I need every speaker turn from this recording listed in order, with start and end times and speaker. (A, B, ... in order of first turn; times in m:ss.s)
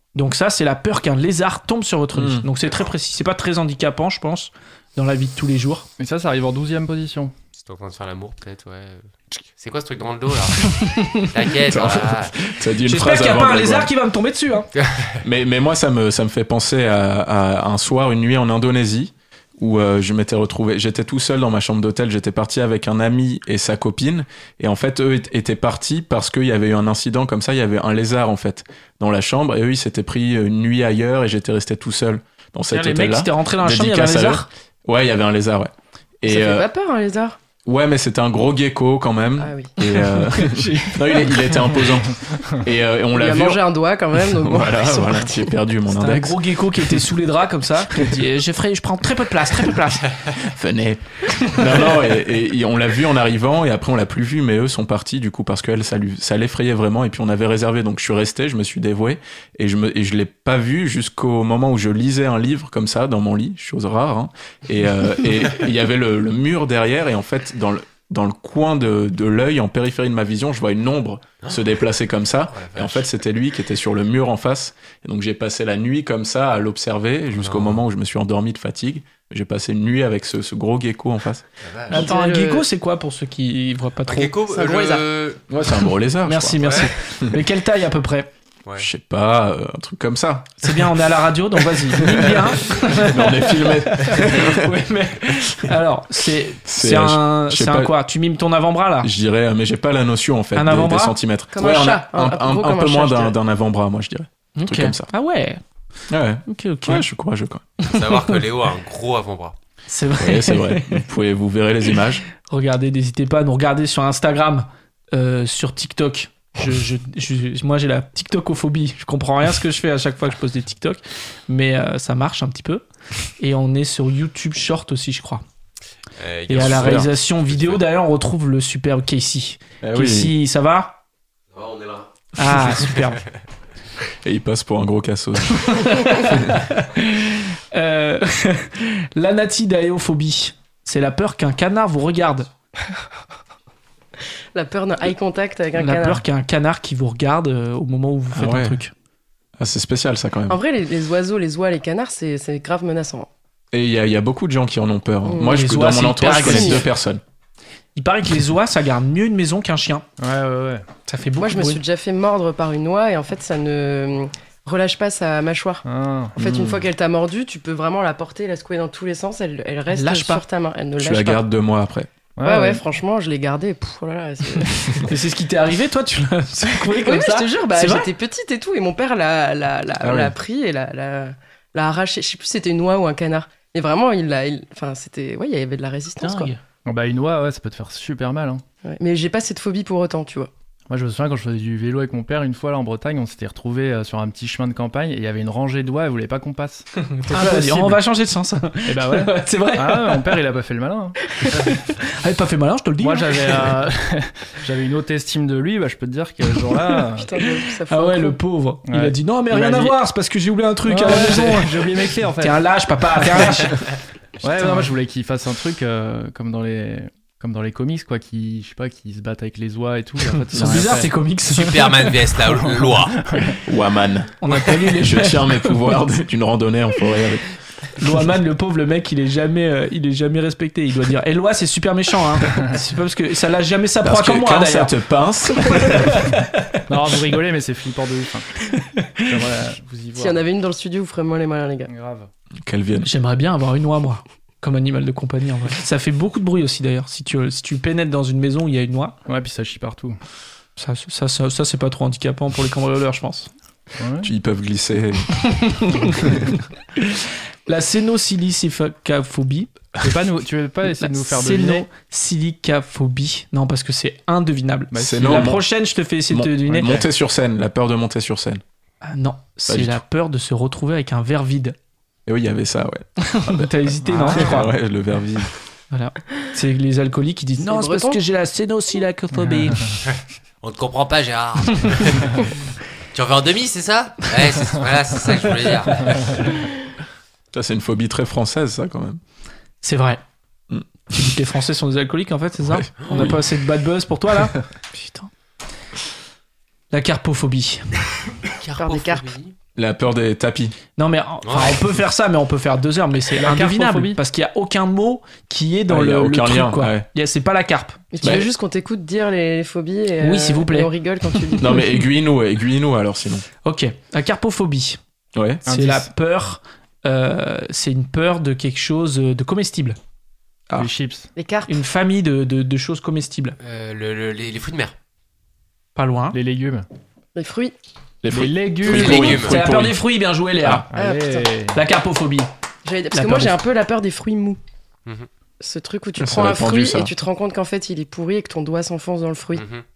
0:00.1-0:05.9 A
0:02.1-0:02.5 B
0:06.0-0:07.3 C
0:07.6-0:12.4 D
0:10.7-0:11.3 A
0:11.6-0:13.9 B
0:12.8-0:14.7 A
0:14.8-0:15.2 D
0:15.2-0:36.7 B
0:32.7-0:34.5 A
0:36.2-0:37.4 E
0:37.6-0:47.0 B
0:39.4-0:39.7 E
0:39.8-0:41.8 A
0:43.1-0:45.5 E
0:45.9-0:50.1 A
0:50.3-1:21.4 B
0:51.4-0:51.9 A
1:12.5-1:13.0 D
1:17.4-1:17.8 D
1:21.6-1:22.1 D
1:21.9-1:22.6 E
1:21.9-1:24.4 A
1:24.1-1:25.4 D
1:24.5-1:25.1 E
1:25.5-1:27.4 B
1:26.2-1:28.3 A
1:26.6-1:26.9 D
1:28.8-1:30.9 B
1:30.6-1:39.1 A
1:32.0-1:34.8 B
1:36.6-1:37.9 B
1:39.0-1:45.1 B
1:40.6-1:41.2 A
1:41.5-1:43.4 E
1:44.6-1:45.6 A
1:46.1-1:47.6 B
1:46.5-1:47.1 A
1:47.8-1:48.4 A
1:47.9-1:49.6 D
1:49.9-1:51.0 A
1:50.2-1:52.2 B
1:52.4-2:02.8 A
2:03.4-2:05.4 A
2:06.2-2:07.8 D
2:06.5-2:11.0 A
2:06.5-2:07.1 B
2:09.8-2:10.3 B
2:11.5-2:12.1 D
2:12.4-2:13.2 A
2:12.6-2:13.0 D
2:14.2-2:16.5 B
2:15.5-2:22.5 A
2:24.5-2:26.2 E
2:25.8-2:28.9 A
2:28.3-2:28.8 B
2:29.6-2:30.6 B
2:30.5-2:33.3 E
2:33.7-2:37.2 B
2:35.2-2:35.6 E
2:35.4-2:36.9 A
2:36.2-2:36.8 E
2:38.0-2:40.1 A
2:40.2-2:40.9 C
2:41.1-2:41.8 A
2:41.4-2:45.8 E
2:45.8-2:46.3 C
2:46.4-2:51.4 E
2:46.4-2:46.9 B
2:49.9-2:50.4 A
2:51.0-2:52.1 B
2:52.4-2:52.8 C
2:52.4-2:55.1 E
2:55.0-2:58.1 A
2:56.8-3:06.5 E
3:00.0-3:00.4 B
3:06.2-3:06.6 A
3:06.9-3:08.6 C
3:08.9-3:10.5 E
3:10.9-3:17.8 C
3:16.9-3:20.4 A
3:18.9-3:21.2 C
3:21.4-3:23.7 A
3:23.0-3:27.3 C
3:27.2-3:28.4 E
3:27.4-3:33.8 A
3:28.8-3:30.0 C
3:30.8-3:32.6 C
3:33.2-3:33.6 C
3:34.4-3:41.2 C
3:34.6-3:34.9 A
3:40.5-3:42.1 A
3:40.5-3:41.0 B
3:41.5-3:43.2 D
3:42.5-3:43.6 C
3:43.6-3:47.4 B
3:44.4-3:45.9 A
3:48.0-3:55.0 A
3:54.0-3:56.2 B
3:55.6-3:56.8 A
3:56.9-3:58.5 C
3:58.7-3:59.4 A
3:59.2-4:00.4 C
4:00.2-4:01.9 E
4:01.9-4:02.3 C
4:02.6-4:03.1 B
4:03.0-4:09.2 A
4:09.3-4:10.2 C
4:10.8-4:13.5 A
4:14.0-4:14.3 C
4:14.2-4:15.4 B
4:15.4-4:19.7 A
4:20.0-4:21.9 C
4:21.0-4:27.0 A
4:24.9-4:25.6 C
4:25.0-4:25.6 B
4:26.3-4:28.6 B
4:29.0-4:31.8 A
4:29.6-4:30.0 B
4:32.3-4:33.7 B
4:33.2-4:34.7 A
4:34.0-4:34.7 C
4:34.2-4:35.5 B
4:35.9-4:39.9 A
4:37.6-4:38.2 E
4:39.3-4:40.0 C
4:40.1-4:42.6 D
4:43.1-4:46.5 D
4:47.5-4:49.2 B
4:49.8-4:50.2 A
4:51.1-4:55.3 A
4:52.6-4:53.4 B
4:53.0-4:53.3 D
4:56.9-4:58.0 A
4:58.5-4:59.5 D
4:58.8-4:59.3 E
4:59.8-5:00.7 B
5:01.0-5:08.4 A
5:01.4-5:01.8 D
5:03.4-5:04.2 C
5:05.9-5:07.1 B
5:08.1-5:12.0 E
5:08.2-5:08.5 B
5:10.2-5:11.8 A
5:11.6-5:13.4 B
5:13.6-5:15.0 A
5:15.4-5:15.6 B
5:15.6-5:16.1 C
5:15.7-5:20.0 A
5:20.7-5:21.3 C
5:21.4-5:21.8 E
5:21.7-5:23.6 A
5:23.6-5:25.0 D
5:26.0-5:26.4 A
5:26.3-5:26.9 C
5:27.4-5:27.7 E
5:28.2-5:30.0 B
5:28.3-5:29.4 C
5:28.8-5:29.6 D
5:28.9-5:30.9 A
5:30.9-5:31.8 C
5:30.9-5:31.5 E
5:31.7-5:32.5 A
5:32.8-5:34.6 E
5:33.1-5:33.6 A
5:35.6-5:39.6 E
5:36.2-5:37.1 B
5:39.6-5:39.8 D